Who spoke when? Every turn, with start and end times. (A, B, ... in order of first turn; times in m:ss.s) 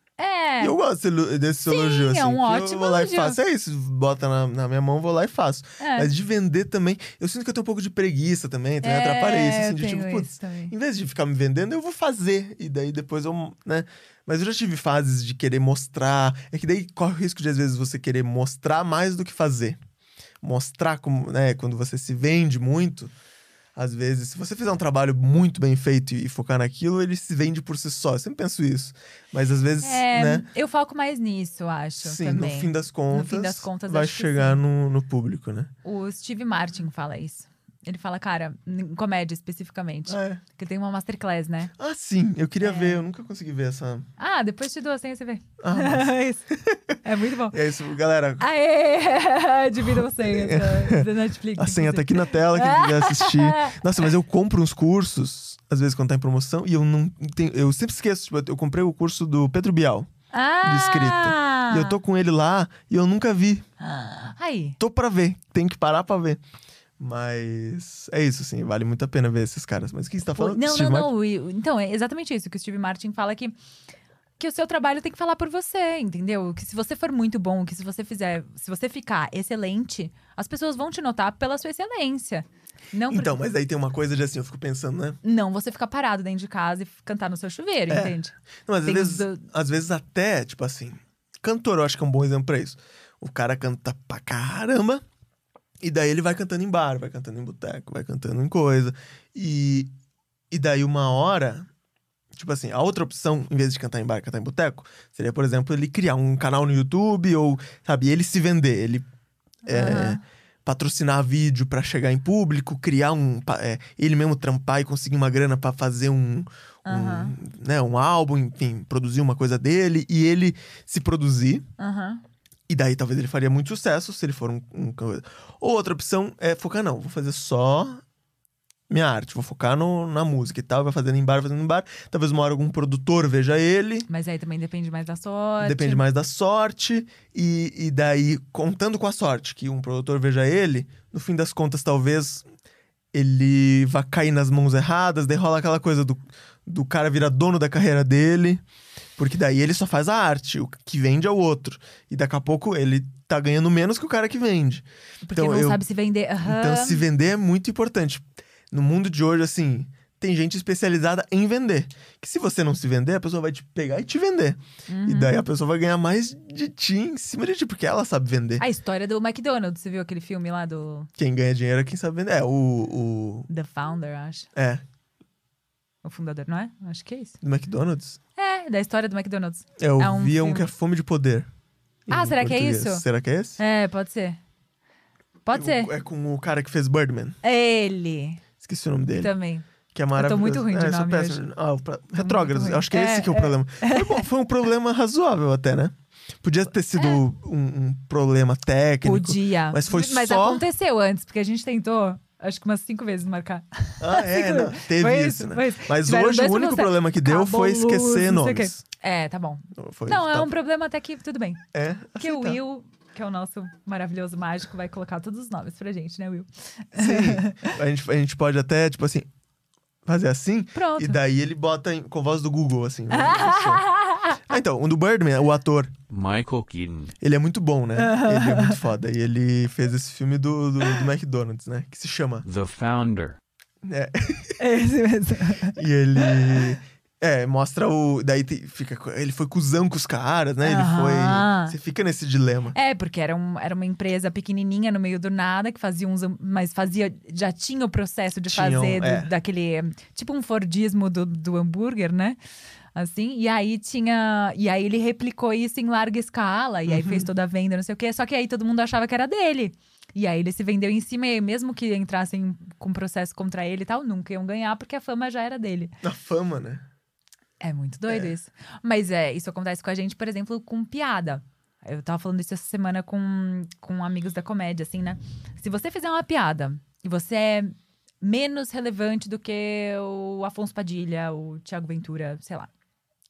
0:00.2-0:00.8 A
0:00.6-0:19.8 B
0:01.6-0:03.4 A
0:05.8-0:06.1 A
0:08.8-0:10.7 A
0:20.4-0:23.1 B
0:23.8-0:30.5 B
0:29.8-0:34.6 A
0:32.0-0:35.7 B
0:35.8-0:41.7 A
0:40.1-0:40.4 B
0:41.8-0:44.1 B
0:42.6-0:43.0 A
0:44.2-0:46.5 A
0:45.6-0:47.0 B
0:47.0-0:47.6 A
0:47.5-0:48.4 B
0:48.4-0:53.8 A
0:49.8-1:00.1 B
1:00.3-1:02.0 A
1:00.6-1:03.6 B
1:03.8-1:04.8 A
1:04.8-1:06.4 B
1:07.0-1:11.1 B
1:10.3-1:13.6 A
1:14.4-1:23.4 A
1:23.1-1:25.2 B
1:25.2-1:29.4 A
1:27.9-1:35.0 B
1:35.8-1:39.9 B
1:40.5-1:41.7 B
1:42.3-1:49.1 B
1:49.7-2:01.7 B
1:49.7-1:50.2 A
1:56.8-1:57.4 A
2:01.8-2:02.2 A
2:02.7-2:08.0 B
2:08.9-2:14.1 B
2:14.1-2:16.0 A
2:15.6-2:22.5 B
2:23.1-2:28.6 B
2:29.2-2:35.8 B
2:35.2-2:37.0 A
2:36.4-2:48.6 B
2:44.9-2:45.4 A
2:48.6-2:51.1 A
2:51.2-2:53.5 B
2:53.5-2:54.5 A
2:54.6-2:54.8 B
2:56.0-2:57.4 A
2:57.4-2:58.2 B
2:58.4-3:00.7 A
2:59.8-3:01.5 B
3:02.1-3:03.6 B
3:02.1-3:03.0 A
3:03.6-3:04.4 A
3:05.5-3:05.9 A
3:05.5-3:07.4 B
3:07.4-3:08.4 A
3:08.6-3:09.3 B
3:09.2-3:11.4 A
3:09.9-3:20.6 B
3:12.2-3:14.2 A
3:19.0-3:31.6 A
3:24.0-3:28.8 B
3:29.7-3:30.5 B
3:31.7-3:32.6 B
3:32.2-3:37.8 A
3:37.0-3:39.3 B
3:40.0-3:43.9 B
3:40.8-3:41.2 A
3:43.1-3:44.5 A
3:44.4-3:46.0 B
3:46.1-3:47.1 C
3:47.2-3:52.4 B
3:48.0-3:48.8 A
3:52.4-3:53.4 C
3:53.8-3:54.6 B
3:54.6-3:56.7 A
3:55.8-4:02.8 B
4:00.6-4:01.8 A
4:02.7-4:12.4 A
4:08.5-4:09.3 B
4:13.0-4:25.9 A
4:16.9-4:17.3 B
4:26.0-4:26.9 B
4:27.6-4:42.7 A
4:28.1-4:28.3 B